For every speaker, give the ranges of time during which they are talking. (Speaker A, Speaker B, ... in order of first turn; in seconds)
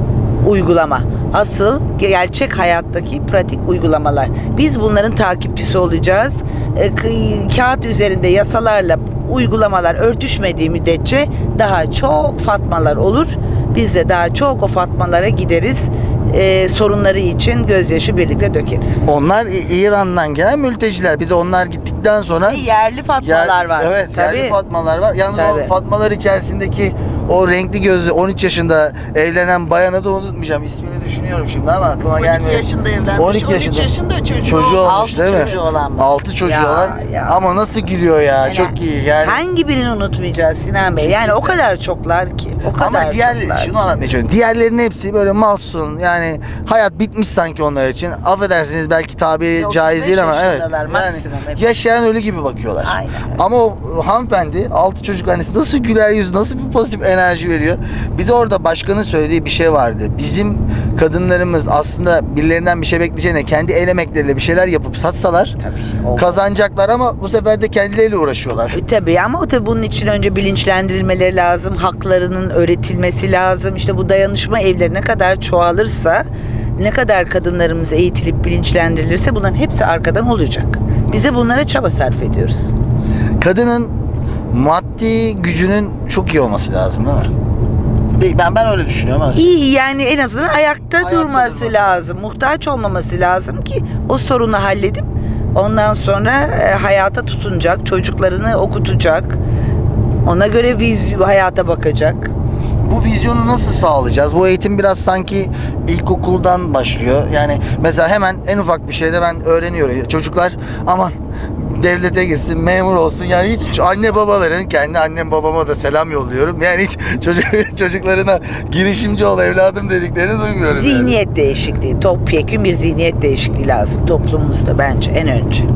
Speaker A: 0.4-19.1, 22.4-24.6, 25.3-25.7, 34.8-37.4, 38.4-43.8, 49.6-51.6, 52.8-53.4, 65.6-66.5, 68.7-76.3, 76.8-82.7, 89.3-99.4, 100.2-102.3, 120.7-125.7
Speaker B: 19.1-22.6, 23.2-32.6, 33.2-33.9, 34.4-39.4, 41.0-41.6, 42.8-65.5, 66.2-68.8, 83.4-83.9, 84.5-87.3, 88.2-89.5, 91.0-92.0, 102.8-121.2
Speaker C: 32.1-35.6